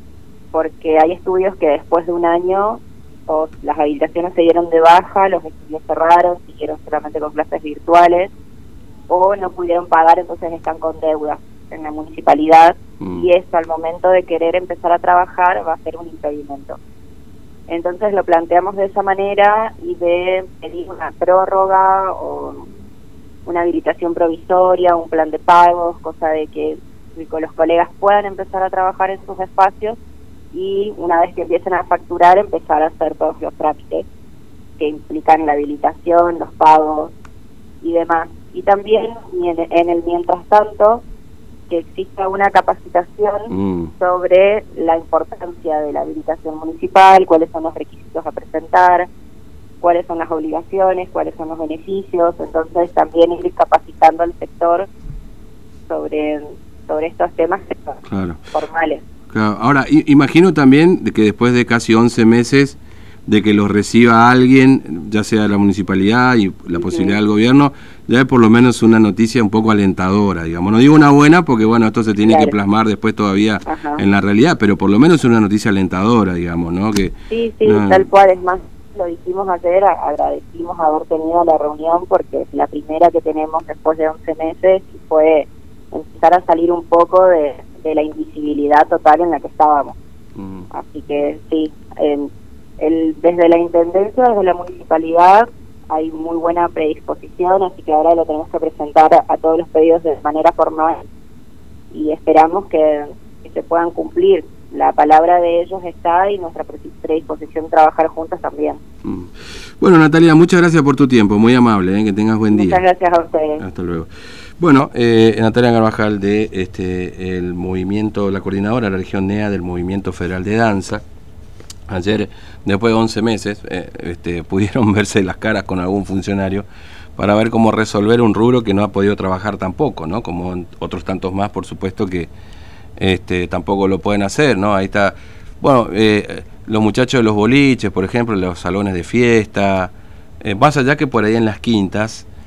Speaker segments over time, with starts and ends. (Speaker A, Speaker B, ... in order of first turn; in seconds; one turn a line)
Speaker A: 0.5-8.3
Speaker A: 9.1-16.8
Speaker B: 13.0-13.3
Speaker A: 17.7-22.7
Speaker A: 23.4-30.0
Speaker A: 30.5-34.1
Speaker A: 34.8-37.1
Speaker A: 37.8-41.0
Speaker A: 41.7-49.1
Speaker B: 43.5-43.9
Speaker A: 49.8-54.9
Speaker A: 55.9-59.0
Speaker B: 58.1-58.4
Speaker B: 59.3-77.1
Speaker A: 66.7-67.2
Speaker A: 72.2-72.5
Speaker A: 73.7-74.0
Speaker A: 77.3-90.0
Speaker B: 77.7-78.1
Speaker B: 90.3-90.7
Speaker A: 90.7-101.0
Speaker A: 101.9-108.8
Speaker B: 109.0-112.8
Speaker A: 112.5-113.6
Speaker B: 113.6-121.0
Speaker B: 121.9-126.7
Speaker B: 127.2-132.3
Speaker B: 133.0-142.3